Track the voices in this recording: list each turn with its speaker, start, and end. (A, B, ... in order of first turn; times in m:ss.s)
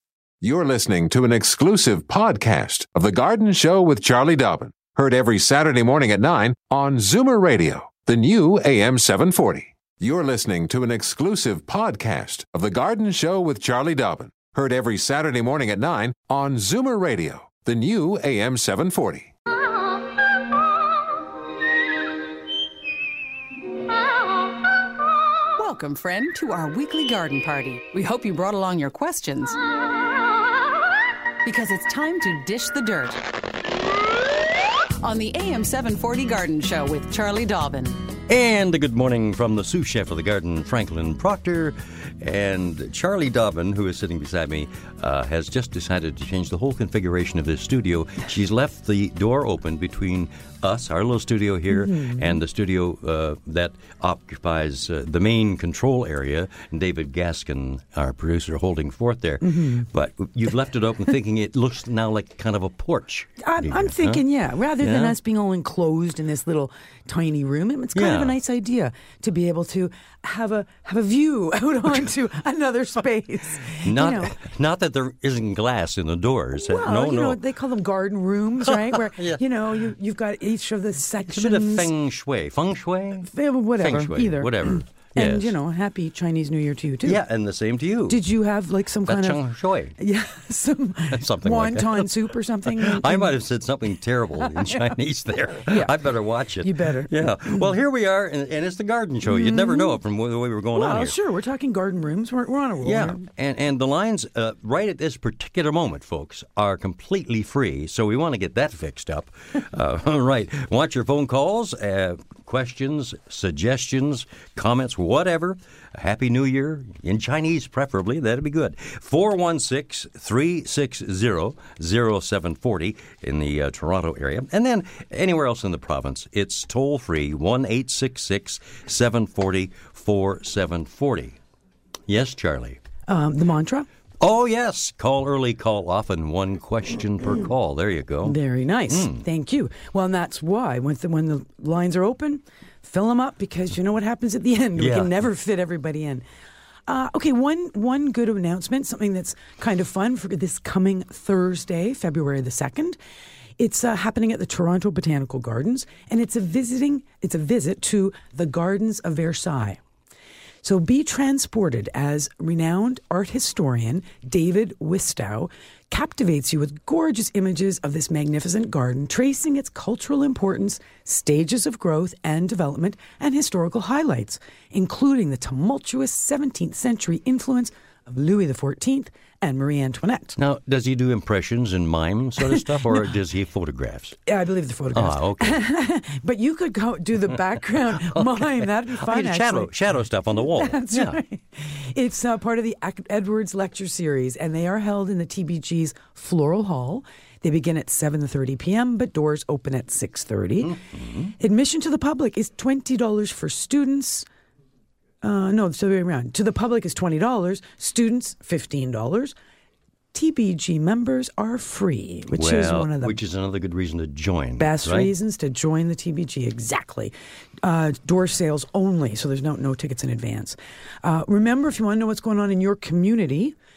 0:00.4-0:19.3 A
0:25.6-0:29.6 B
0:31.4-0:33.2 B
0:35.0-0:38.0 B
0:38.3-1:04.2 C
0:51.7-0:52.4 D
0:59.4-0:59.9 D
1:03.4-1:14.4 D
1:04.8-1:05.2 C
1:07.9-1:08.4 C
1:13.8-1:17.4 C
1:16.5-1:21.9 D
1:18.7-1:19.4 C
1:21.3-1:25.5 C
1:23.2-1:27.2 D
1:27.0-1:28.2 C
1:28.1-1:29.4 D
1:29.0-1:30.0 C
1:30.0-1:33.3 D
1:31.1-1:32.1 C
1:32.7-1:41.1 C
1:34.4-1:34.9 D
1:35.7-1:36.0 D
1:36.6-1:37.7 D
1:39.2-1:40.0 D
1:40.7-1:43.2 D
1:42.8-2:11.4 C
2:12.1-2:12.8 C
2:13.1-2:13.9 D
2:14.2-2:18.4 C
2:18.2-2:26.2 D
2:18.9-2:19.2 C
2:24.8-2:25.1 C
2:26.9-2:33.0 D
2:33.6-2:39.8 D
2:40.6-3:00.4 D
3:00.4-3:04.2 C
3:02.5-3:03.0 D
3:04.3-3:09.7 D
3:04.9-3:05.6 C
3:07.9-3:11.2 C
3:10.4-3:20.8 D
3:20.6-3:21.3 C
3:21.4-3:24.3 D
3:25.2-3:29.3 D
3:30.1-3:33.2 D
3:32.3-3:35.1 C
3:34.6-3:43.5 D